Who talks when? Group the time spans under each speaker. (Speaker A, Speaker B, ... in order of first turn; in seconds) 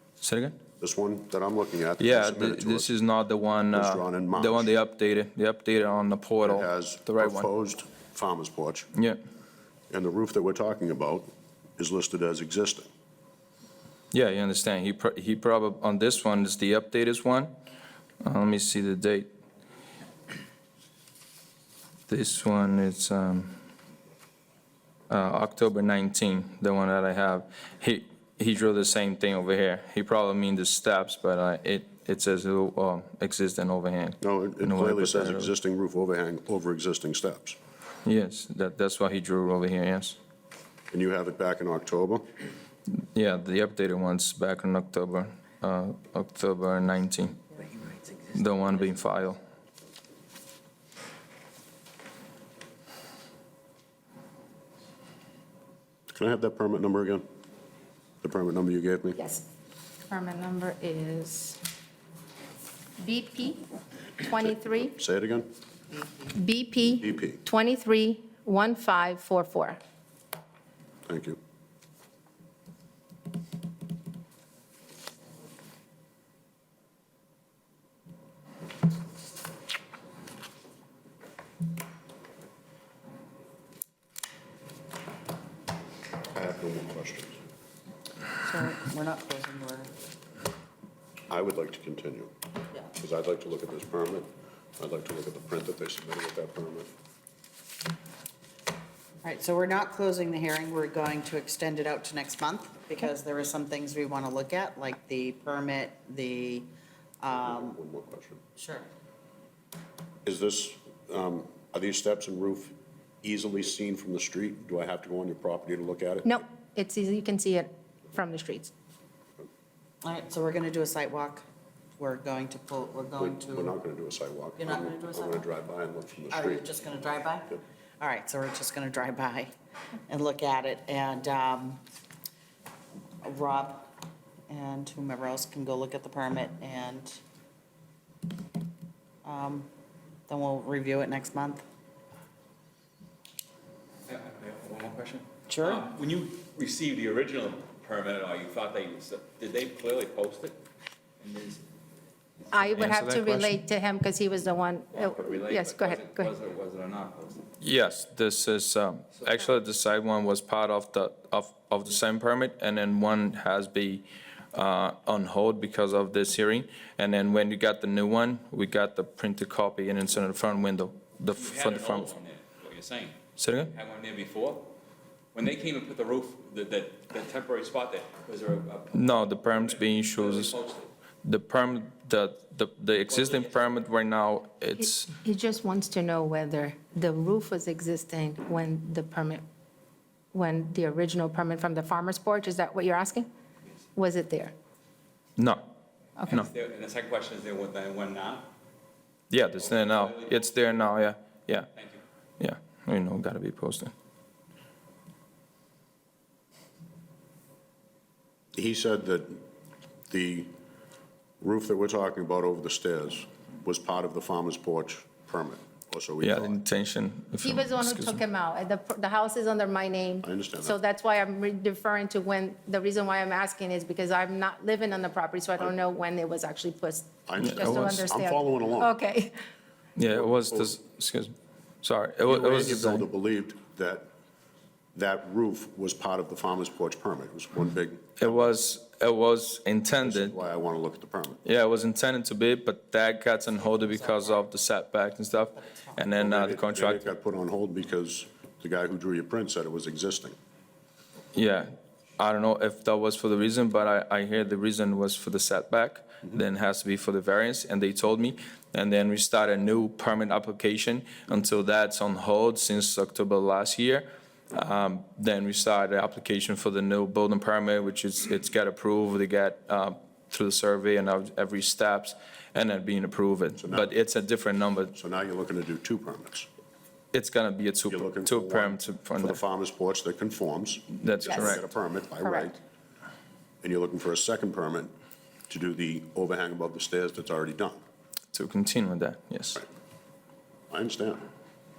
Speaker A: 0.2-0.6, 2.0-7.5, 14.1-17.5, 18.2-19.3, 22.1-23.5, 25.1-35.5, 38.0-40.2, 42.9-47.5, 48.3-49.4, 152.8-153.6, 157.6-172.1, 173.4-173.7, 178.9-180.6, 181.2-185.1, 195.4-195.7, 199.3-201.7, 202.4-203.9, 216.2-218.2, 227.4-228.0, 230.0-233.1, 238.2-240.3, 241.4-247.0, 251.3-274.9, 277.1-279.4, 280.9-281.7, 288.3-289.6
Speaker B: 0.8-2.9, 3.7-4.8, 6.4-8.9, 9.9-12.9, 34.2-37.6, 40.9-42.2, 56.1-57.2, 58.2-59.2, 64.4-65.5, 67.0-67.4, 71.1-71.4, 86.3-87.4, 91.3-92.3, 92.9-96.9, 107.3-108.4, 110.2-116.4, 123.2-126.7, 208.6-209.4, 210.1-210.5, 211.4-216.6, 220.2-220.8, 227.3-228.9, 230.1-230.7, 232.2-234.1, 234.9-238.6, 240.0-241.4, 246.2-250.4, 273.6-273.9, 274.9-276.5, 277.9-282.6, 283.6-284.9, 285.5-287.8, 290.7-291.3
Speaker C: 59.2-59.5, 60.1-61.6, 63.0-63.6, 64.2-65.0, 66.2-69.8, 116.2-118.7, 152.5-156.3, 184.8-189.4, 190.3-193.3, 193.9-194.6, 196.2-196.4, 217.4-229.4, 281.3-281.6, 282.2-282.5
Speaker D: 88.4-89.9, 99.2-106.7, 107.2-107.8, 108.6-108.9, 120.0-121.5, 122.0-123.7, 124.6-125.5, 126.3-129.5, 130.1-131.8, 133.2-133.9, 134.5-137.2, 139.2-139.7, 140.3-141.6, 145.5-145.9, 243.6-244.5, 245.5-246.1
Speaker E: 144.1-150.6, 151.2-151.6, 154.9-157.4, 171.3-173.2, 173.7-174.7, 175.3-180.9, 183.1-183.8, 196.3-198.5, 199.6-200.6, 201.8-202.0